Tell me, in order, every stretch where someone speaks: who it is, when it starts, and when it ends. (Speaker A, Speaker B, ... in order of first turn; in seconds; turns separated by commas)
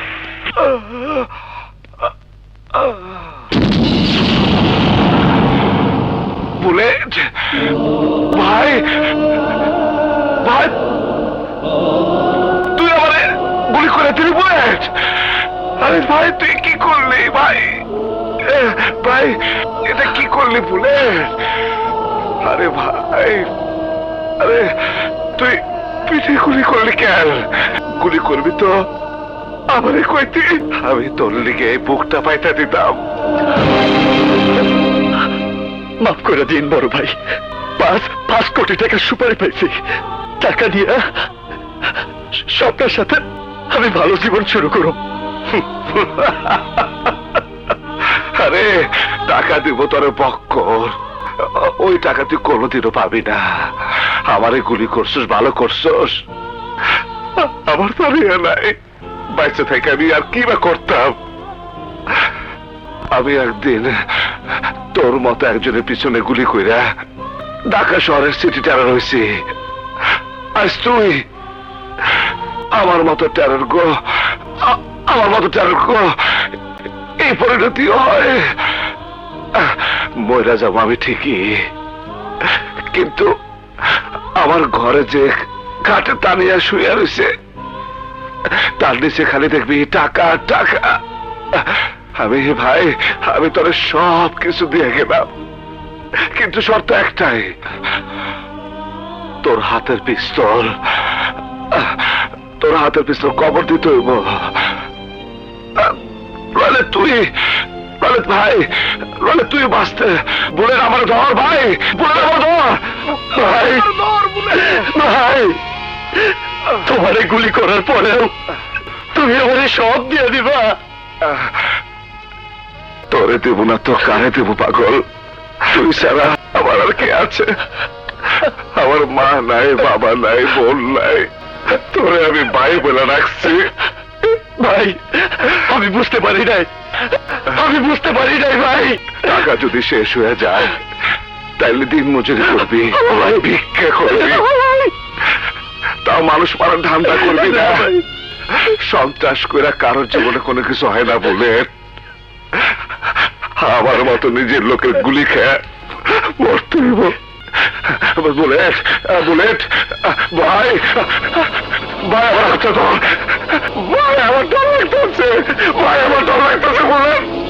Speaker A: 0.6-1.2, Speaker A: 2.8-3.1, Speaker A: 6.6-7.5, Speaker A: 8.3-9.1, Speaker A: 10.4-10.8, Speaker A: 12.7-17.8, Speaker A: 18.4-21.4, Speaker A: 22.4-23.5, Speaker A: 24.4-28.7, Speaker A: 29.7-33.0, Speaker B: 36.0-37.1, Speaker B: 37.8-39.8, Speaker B: 40.4-41.3, Speaker B: 42.5-45.0, Speaker A: 45.6-46.9, Speaker A: 48.2-56.2, Speaker A: 57.4-58.8, Speaker A: 59.3-61.2, Speaker A: 63.1-64.0, Speaker A: 64.9-66.9, Speaker A: 67.7-69.4, Speaker A: 70.5-71.2, Speaker A: 72.7-76.5, Speaker A: 77.2-78.7, Speaker A: 79.5-81.6, Speaker A: 82.4-83.3, Speaker A: 84.0-87.3, Speaker A: 88.5-91.0, Speaker A: 91.5-95.3, Speaker A: 96.2-97.5, Speaker A: 99.4-101.2, Speaker A: 101.7-104.7, Speaker A: 106.5-107.3, Speaker A: 108.0-114.9, Speaker B: 113.3-113.9, Speaker B: 114.6-115.6, Speaker B: 116.7-118.3, Speaker B: 119.1-120.8, Speaker A: 121.2-121.5, Speaker A: 123.1-125.0, Speaker A: 125.6-127.6, Speaker A: 128.2-133.7, Speaker B: 134.4-139.3, Speaker A: 139.2-140.8, Speaker A: 141.6-144.5, Speaker B: 144.2-144.9, Speaker A: 146.0-147.9, Speaker B: 147.1-148.0, Speaker A: 148.5-151.7, Speaker A: 153.6-167.3